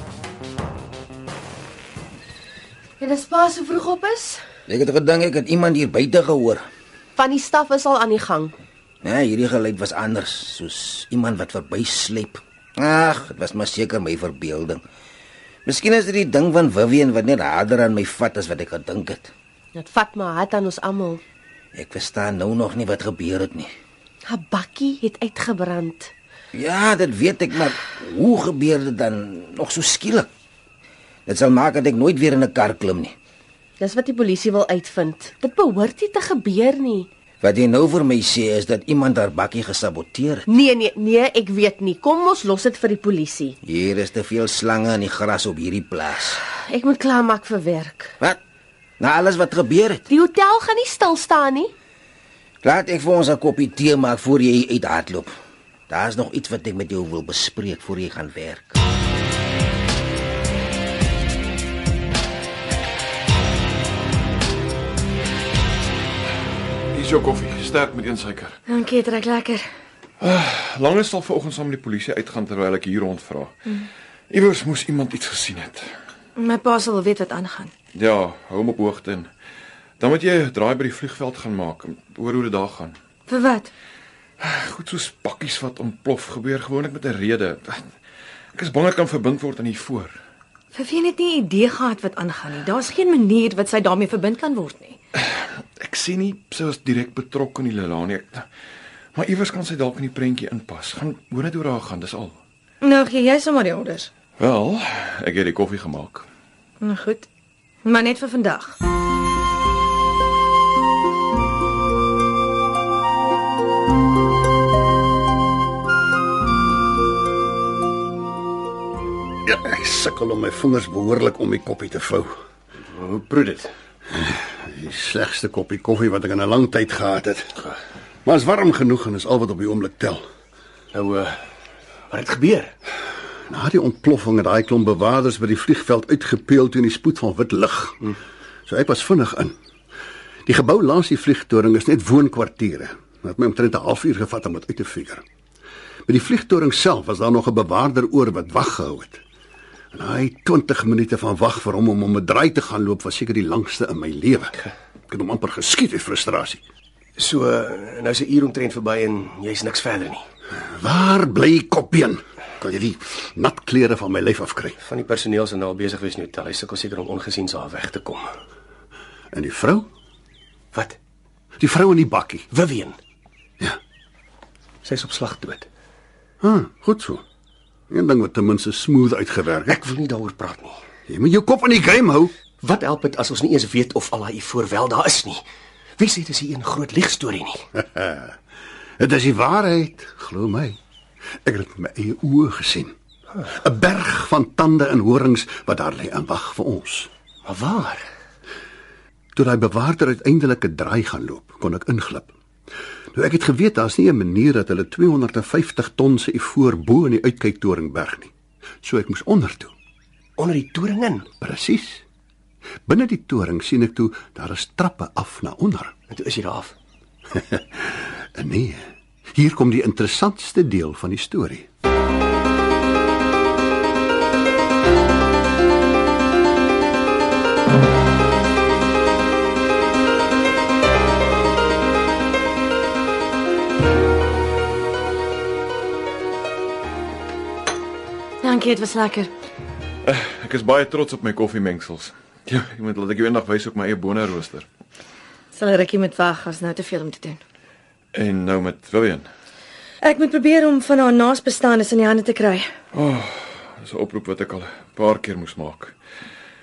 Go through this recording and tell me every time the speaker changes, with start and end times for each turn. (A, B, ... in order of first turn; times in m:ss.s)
0:03.0-0:04.4 A
0:04.7-0:06.6 B
0:07.2-0:08.5 A
0:09.0-0:14.8 B
0:15.7-0:19.3 B
0:19.8-0:21.2 A
0:21.8-0:23.7 B
0:24.3-0:26.1 A
0:26.5-0:30.3 B
0:31.3-0:33.2 B
0:33.8-0:37.1 A
0:37.4-0:40.5 B
0:40.5-0:43.6 A
0:43.7-0:46.4 B
0:46.5-0:48.1 A
0:49.0-0:50.1 B
0:50.1-0:51.7 A
0:52.6-0:55.3 B
0:55.9-0:58.8 B
1:06.9-1:08.6 C
1:08.7-1:09.6 D
1:10.2-1:13.6 C
1:14.3-1:15.9 C
1:16.4-1:17.7 D
1:17.9-1:19.3 C
1:20.0-1:23.0 C
1:23.3-1:23.7 D
1:24.4-1:27.9 C
1:28.6-1:30.2 C
1:30.7-1:35.0 D
1:35.2-1:38.5 C
1:39.2-1:42.4 C
1:42.8-1:44.1 D
1:44.4-1:46.3 C
1:46.8-1:47.3 D
1:47.8-1:48.8 D
1:59.5-2:02.4 E
2:02.8-2:03.7 F
2:04.1-2:07.7 E
2:08.3-2:10.2 E
2:10.9-2:11.4 F
2:12.1-2:12.7 F
2:13.5-2:18.1 E
2:18.7-2:19.5 E
2:20.5-2:25.2 E
2:26.1-2:29.2 E
2:29.9-2:36.6 E
2:37.2-2:40.3 F
2:40.6-2:44.8 E
2:44.8-2:48.3 F
2:49.3-2:49.9 E
2:51.6-2:52.5 E
2:52.5-2:53.0 F
2:54.8-2:55.7 F
2:56.4-2:57.2 E
2:57.9-2:59.8 E
2:59.7-3:00.8 F
3:01.1-3:02.3 E
3:02.6-3:05.4 F
3:06.0-3:07.6 F
3:07.8-3:08.4 E
3:09.0-3:10.8 E
3:11.4-3:12.9 E
3:13.5-3:17.1 E
3:17.4-3:18.0 F
3:19.4-3:22.3 E
3:23.1-3:28.3 E
3:28.8-3:29.7 E
3:30.4-3:31.3 F
3:31.4-3:32.0 E
3:32.9-3:35.9 E
3:36.1-3:36.7 F
3:37.4-3:41.7 E
3:58.4-3:59.3 D
4:00.0-4:04.7 C
4:05.5-4:07.4 D
4:08.1-4:09.3 C
4:10.0-4:12.7 D
4:12.9-4:16.0 C